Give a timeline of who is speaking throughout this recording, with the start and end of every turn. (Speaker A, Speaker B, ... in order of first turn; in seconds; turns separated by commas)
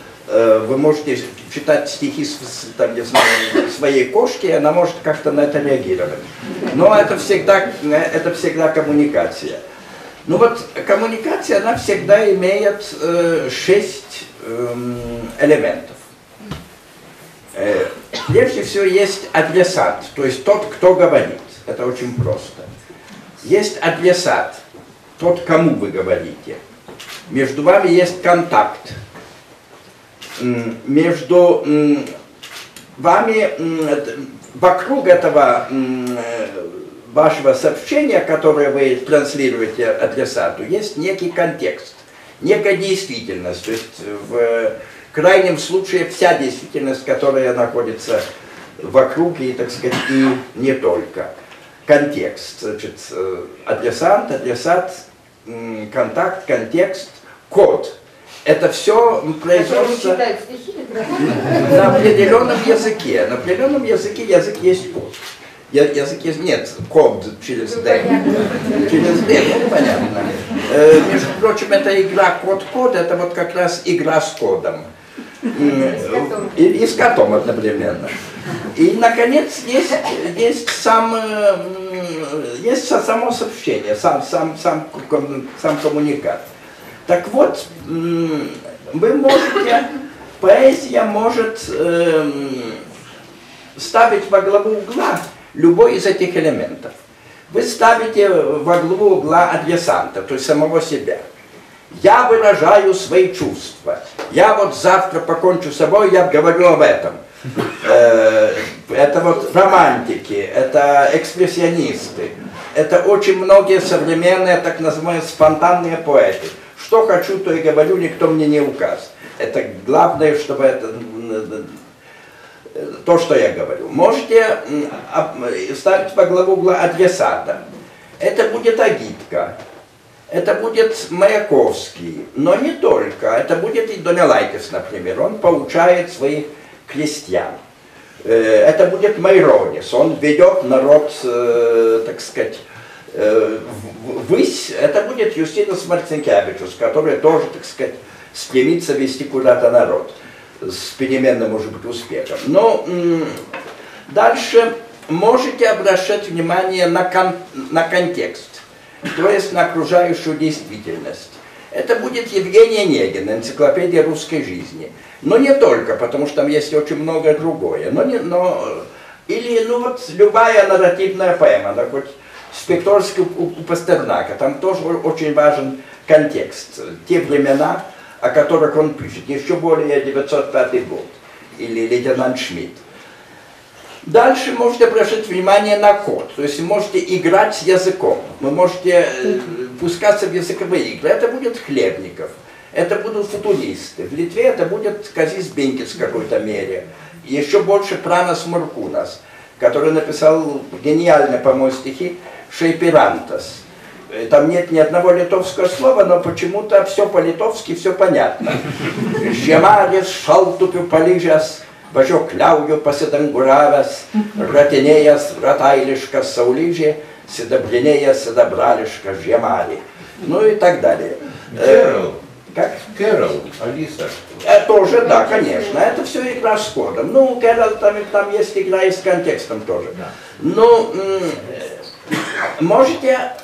Speaker A: 0.3-9.6, Speaker A: 10.2-16.0, Speaker A: 17.5-22.7, Speaker A: 23.4-24.6, Speaker A: 25.2-26.6, Speaker A: 27.3-29.0, Speaker A: 30.4-32.1, Speaker A: 33.0-48.2, Speaker A: 48.8-51.3, Speaker A: 51.9-60.2, Speaker B: 59.5-62.4, Speaker A: 61.5-65.2, Speaker A: 65.7-68.2, Speaker B: 67.7-69.4, Speaker A: 68.8-74.9, Speaker A: 75.5-78.2, Speaker B: 75.5-76.6, Speaker A: 78.7-86.4, Speaker A: 87.0-92.8, Speaker A: 93.8-97.0, Speaker A: 97.5-101.2, Speaker A: 101.9-107.2, Speaker A: 107.8-121.8, Speaker A: 122.7-127.6, Speaker A: 128.2-129.5, Speaker A: 130.3-137.6, Speaker A: 138.2-153.4, Speaker A: 154.1-182.8, Speaker A: 184.0-222.9, Speaker C: 221.5-222.2, Speaker C: 222.9-224.3, Speaker A: 224.4-231.8, Speaker B: 224.9-225.9, Speaker A: 232.6-233.3